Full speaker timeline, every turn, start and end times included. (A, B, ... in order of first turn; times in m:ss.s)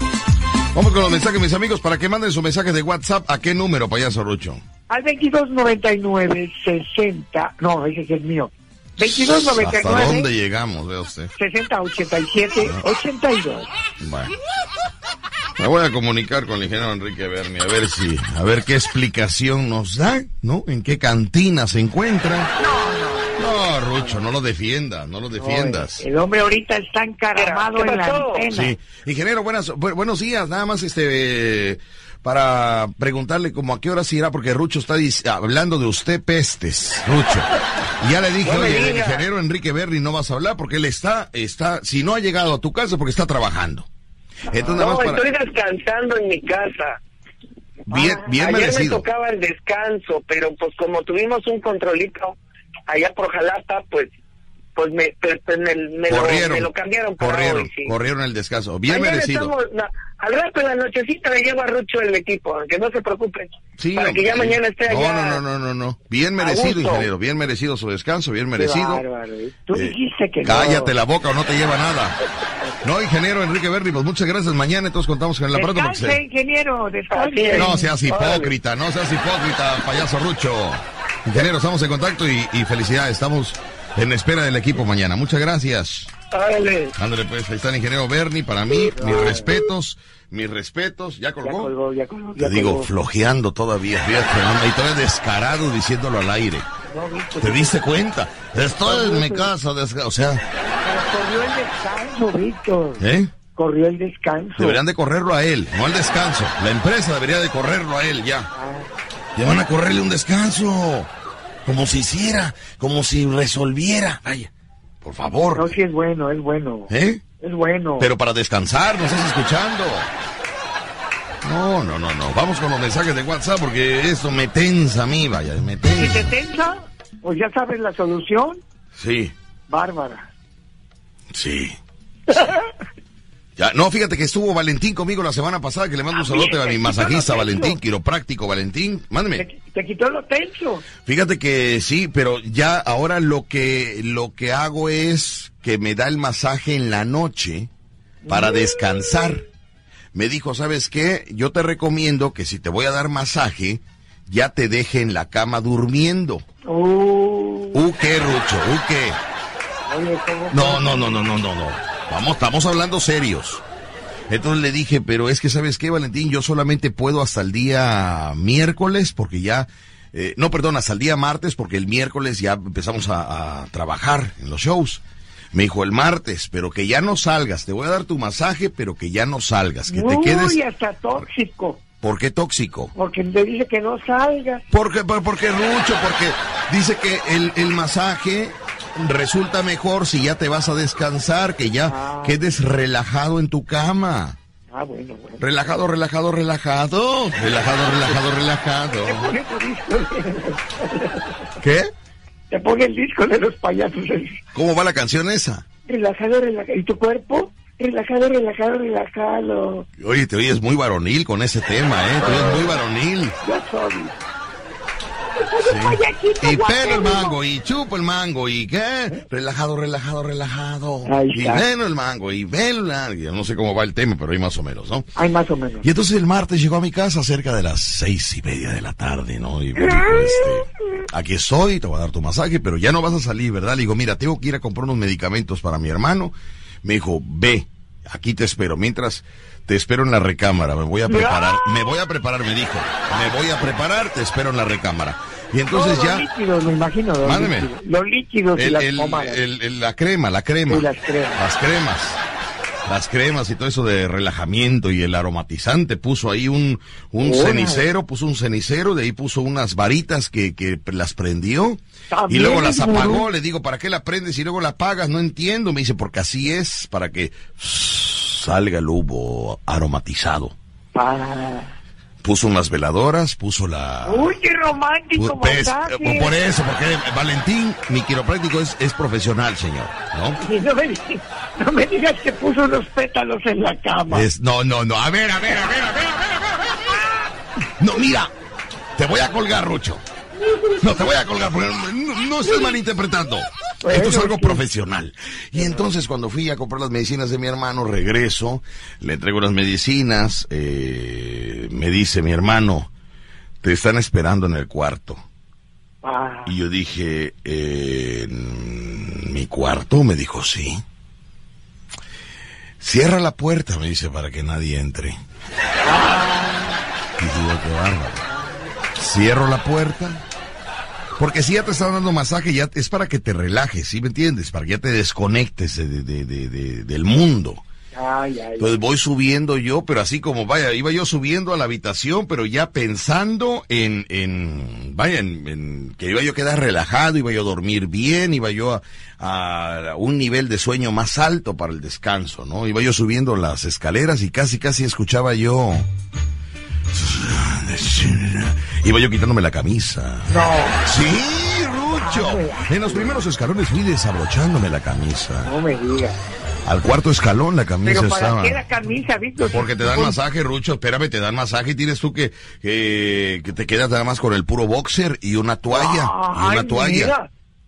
0:00.7-0:04.6 A
0:04.9-0:10.3 B
0:09.0-0:11.3 A
0:11.4-0:13.7 B
0:14.0-0:14.3 A
0:15.6-0:22.5 A
0:22.6-0:24.2 B
0:23.4-0:26.0 A
0:25.4-0:28.8 B
0:27.4-0:28.5 C
0:28.5-0:37.5 A
0:38.0-0:43.9 A
0:38.4-0:39.2 C
0:44.5-0:45.2 A
0:44.7-0:47.0 C
0:47.9-0:49.0 A
0:48.3-0:52.4 C
0:52.9-0:54.1 C
0:54.8-0:57.9 C
0:56.1-0:59.5 A
0:58.9-1:05.4 C
1:03.8-1:09.0 A
1:06.4-1:07.1 C
1:08.6-1:10.9 B
1:09.7-1:12.2 A
1:12.8-1:16.2 A
1:15.5-1:17.8 B
1:17.1-1:18.5 C
1:17.6-1:26.1 A
1:26.3-1:26.9 C
1:27.0-1:31.7 A
1:29.0-1:29.5 B
1:31.4-1:32.9 B
1:32.4-1:36.7 A
1:36.9-1:37.8 B
1:37.4-1:40.4 A
1:38.8-1:39.5 B
1:40.8-1:43.0 B
1:43.0-1:43.3 A
1:43.6-1:44.8 B
1:44.6-1:48.5 A
1:48.5-1:48.9 B
1:49.4-1:51.1 A
1:51.7-1:54.5 A
1:55.0-1:55.7 A
1:55.6-1:58.1 B
1:56.9-1:57.2 A
1:58.0-2:00.1 A
2:01.4-2:06.3 A
2:06.0-2:08.6 B
2:09.0-2:09.3 A
2:09.7-2:10.3 B
2:11.3-2:11.8 A
2:12.3-2:12.7 B
2:13.6-2:19.4 A
2:16.1-2:17.8 B
2:19.4-2:20.9 B
2:21.0-2:27.7 A
2:28.2-2:29.4 B
2:28.3-2:29.4 A
2:30.2-2:36.4 A
2:36.6-2:37.8 B
2:37.7-2:39.2 A
2:39.9-2:41.2 B
2:40.5-2:43.6 A
2:44.3-2:55.0 A
2:55.5-3:00.6 A
2:59.9-3:01.8 B
3:02.0-3:02.9 A
3:03.0-3:04.6 B
3:04.7-3:14.4 A
3:11.9-3:12.4 B
3:14.7-3:15.4 B
3:15.4-3:19.3 A
3:19.1-3:21.5 B
3:21.6-3:21.9 A
3:22.5-3:24.4 B
3:24.5-3:25.6 A
3:25.9-3:29.9 B
3:30.0-3:33.4 A
3:32.2-3:32.8 B
3:33.4-3:34.2 B
3:35.2-3:37.4 B
3:35.6-3:45.1 A
3:41.1-3:41.6 B
3:45.2-3:45.8 B
3:45.8-3:56.3 A
3:49.8-3:50.6 B
3:56.8-4:06.3 A
4:01.1-4:01.9 B
4:03.1-4:03.7 B
4:05.7-4:09.4 B
4:07.2-4:07.7 A
4:08.6-4:12.2 A
4:10.7-4:11.4 B
4:12.9-4:30.5 A
4:17.2-4:17.8 B
4:22.1-4:23.3 B
4:30.9-4:31.8 B
4:32.2-4:34.4 A
4:34.0-4:36.4 B
4:35.2-4:40.4 A
4:40.4-4:44.3 B
4:44.1-4:47.0 A
4:47.8-4:48.3 A
4:49.0-4:50.0 A
4:50.4-4:51.1 B
4:50.8-5:02.9 A
4:53.8-4:54.6 B
4:55.6-4:55.9 B
5:03.6-5:05.2 A
5:06.0-5:06.5 B
5:06.5-5:10.8 A
5:12.8-5:15.2 A
5:15.8-5:16.8 B
5:17.2-5:18.2 A
5:18.3-5:18.5 B
5:19.0-5:20.2 A
5:21.2-5:27.6 A
5:27.9-5:28.8 B
5:28.6-5:45.8 A
5:46.9-5:50.3 A
5:50.3-5:50.8 B
5:50.8-5:55.5 A
5:52.0-5:53.2 B
5:55.4-5:56.2 B
5:56.6-5:58.6 A
5:57.8-6:00.2 B
5:59.5-6:07.1 A
6:05.7-6:07.3 B